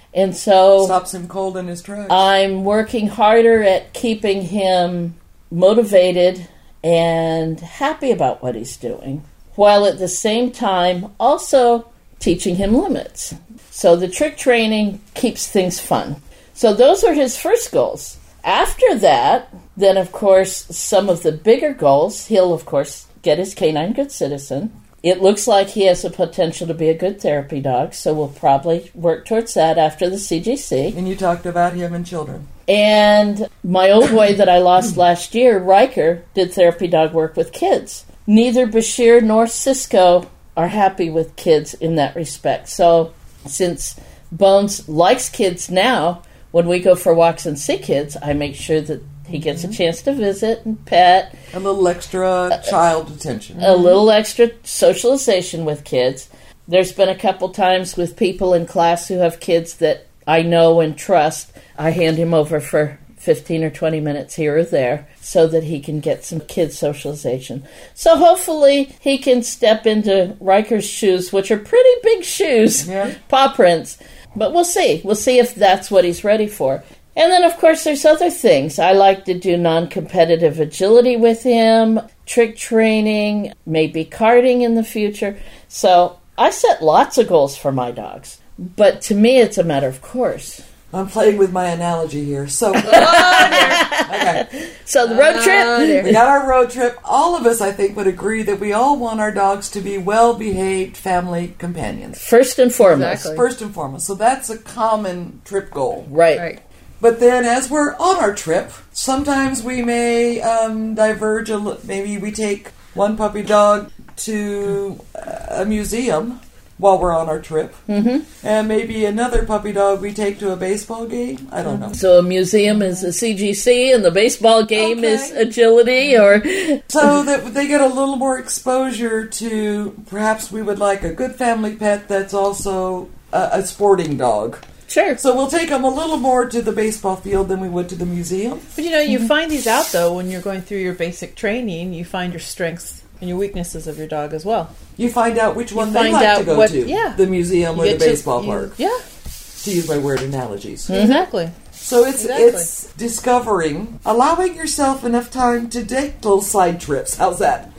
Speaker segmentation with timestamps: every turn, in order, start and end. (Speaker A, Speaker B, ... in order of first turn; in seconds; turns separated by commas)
Speaker A: 0.1-1.0, Speaker B: 0.8-2.3, Speaker A: 2.1-31.0, Speaker B: 30.9-32.5, Speaker A: 32.7-51.4, Speaker C: 49.5-49.8, Speaker B: 51.5-53.6, Speaker C: 53.6-54.0, Speaker A: 53.6-90.6, Speaker B: 72.8-73.2, Speaker B: 90.9-94.5, Speaker A: 92.8-96.2, Speaker C: 92.8-93.9, Speaker C: 95.0-96.2, Speaker B: 96.0-102.2, Speaker A: 102.2-103.3, Speaker C: 102.8-103.5, Speaker B: 103.1-106.1, Speaker A: 106.1-106.5, Speaker C: 106.3-106.6, Speaker B: 107.0-117.8, Speaker A: 117.9-118.3, Speaker B: 118.4-122.0, Speaker C: 121.7-122.0, Speaker A: 121.9-127.1, Speaker C: 122.7-123.1, Speaker B: 124.8-125.4, Speaker B: 126.9-134.6, Speaker A: 134.9-135.2, Speaker B: 135.2-138.7, Speaker C: 138.8-144.8, Speaker B: 145.0-148.8, Speaker C: 145.8-149.0, Speaker B: 149.6-150.9, Speaker A: 150.9-151.3, Speaker C: 150.9-151.5, Speaker B: 151.8-157.7, Speaker C: 152.2-152.7